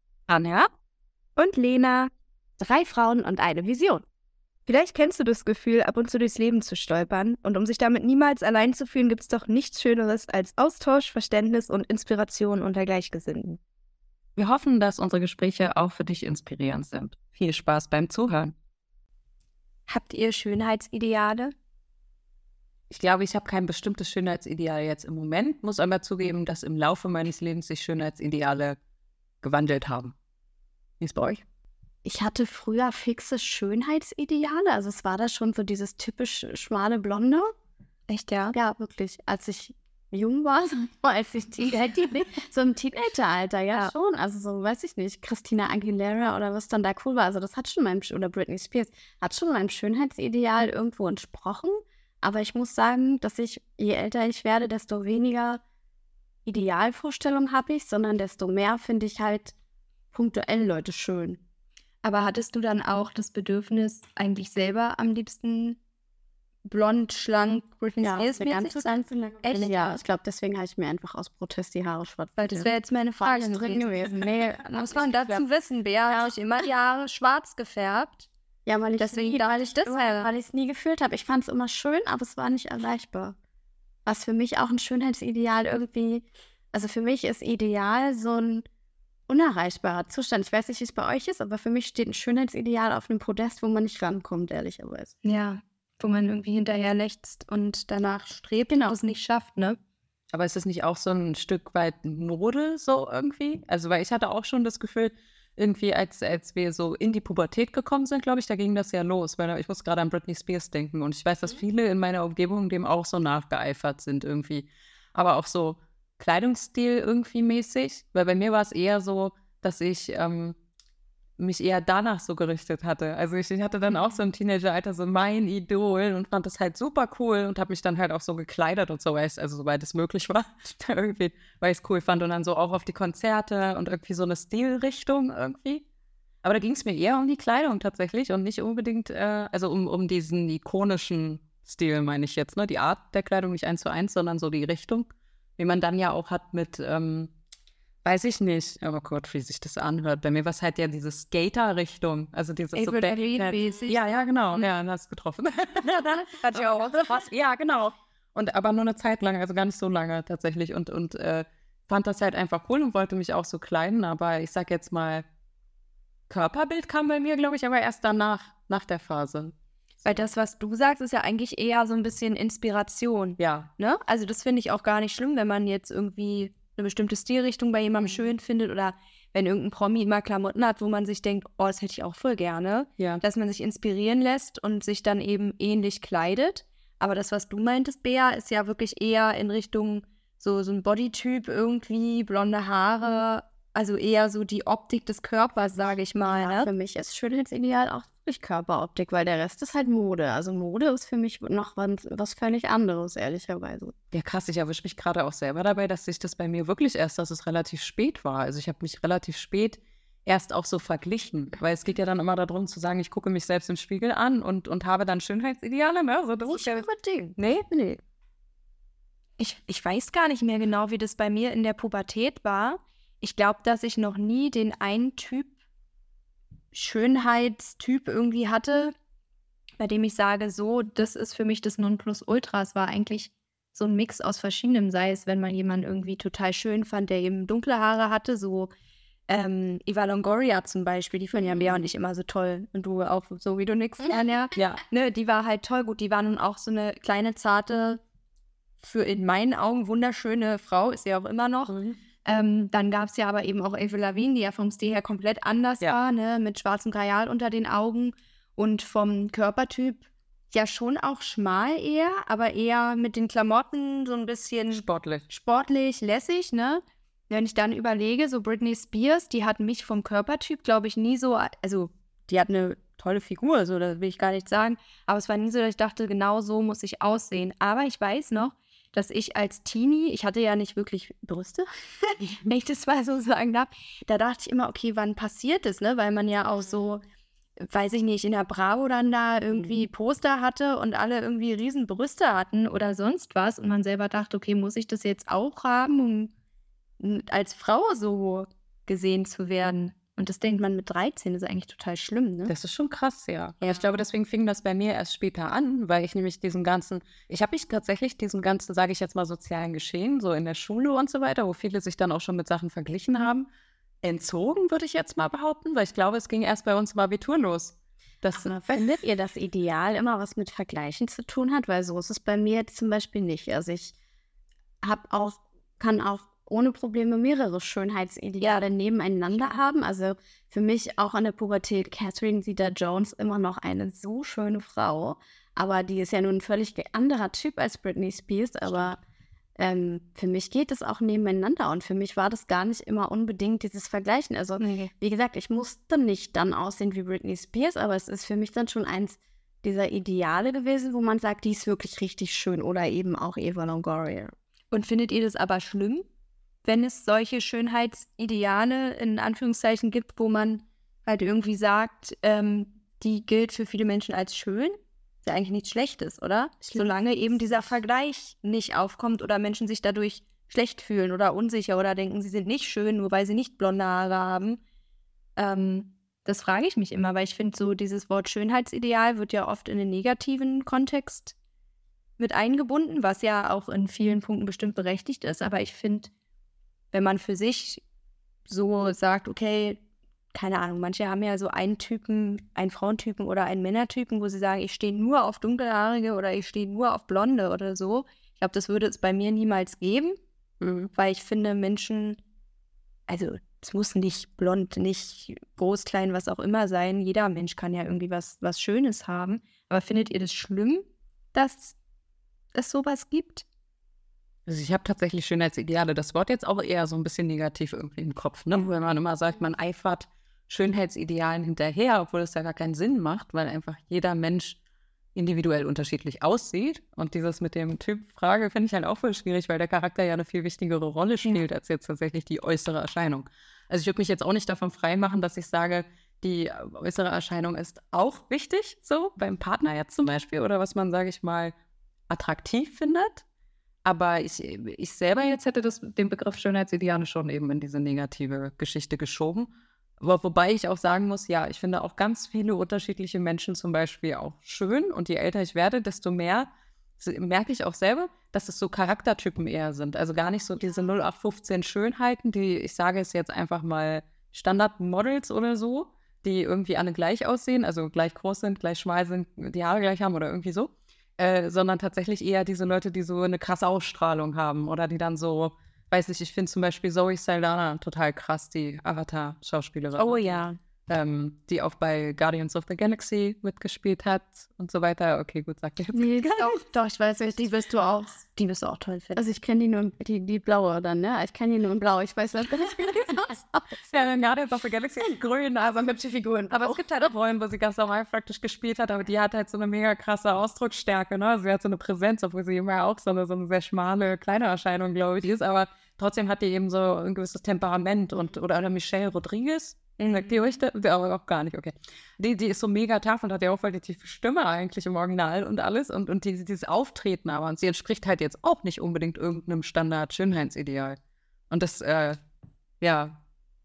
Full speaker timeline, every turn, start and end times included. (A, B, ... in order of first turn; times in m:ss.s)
0:01.4-0:02.1 A
0:02.6-0:04.0 B
0:04.7-0:13.6 A
0:14.4-0:18.6 C
0:19.9-0:21.5 A
0:22.9-0:28.8 C
0:29.4-0:30.2 C
0:31.0-0:31.4 C
0:32.0-0:37.5 B
0:38.1-0:38.5 A
0:38.5-0:55.6 B
0:56.5-0:59.5 B
1:00.1-1:01.4 B
1:02.0-1:05.8 A
1:06.6-1:08.9 A
1:08.0-1:15.4 B
1:09.5-1:10.0 A
1:12.4-1:18.3 A
1:18.7-1:23.4 B
1:19.0-1:20.3 A
1:24.1-1:28.6 B
1:29.3-1:35.1 B
1:35.2-1:39.8 A
1:40.3-2:00.6 C
2:01.4-2:15.8 C
2:16.4-2:27.3 C
2:28.0-2:45.2 C
2:32.7-2:34.0 A
2:36.3-2:37.3 A
2:46.3-2:49.5 C
2:50.0-3:16.7 A
2:53.4-2:53.7 C
3:16.2-3:23.9 B
3:24.1-3:36.9 C
3:36.5-3:37.4 B
3:37.4-3:38.0 A
3:39.4-3:45.5 A
3:46.7-3:48.9 A
3:49.8-3:58.7 A
3:59.3-4:08.0 A
4:04.6-4:04.8 C
4:08.8-4:47.0 A
4:24.7-4:25.2 C
4:47.6-4:56.3 A
4:57.0-5:02.5 A
5:02.5-5:13.5 C
5:03.6-5:03.9 A
5:14.0-5:18.5 C
5:18.4-5:24.0 B
5:24.8-5:39.0 B
5:39.6-5:54.3 B
5:44.6-5:44.9 A
5:54.7-5:56.0 A
5:56.6-6:14.6 A
6:15.4-6:21.3 A
6:22.2-6:26.1 A
6:26.9-6:27.8 A
6:28.5-6:29.8 A
6:30.3-6:40.2 A
6:40.6-6:40.9 C
6:40.9-6:42.2 A
6:43.1-6:51.8 A
6:52.5-6:53.4 A
6:54.5-7:04.6 C
7:05.2-7:21.6 C
7:22.1-7:23.2 C
7:23.8-8:06.4 C
8:00.0-8:00.5 A
8:05.9-8:08.4 B
8:08.4-8:09.1 A
8:09.1-8:13.9 B
8:13.8-8:15.9 C
8:15.8-8:16.8 B
8:16.5-8:41.0 C
8:41.5-8:42.2 C
8:42.8-8:43.2 C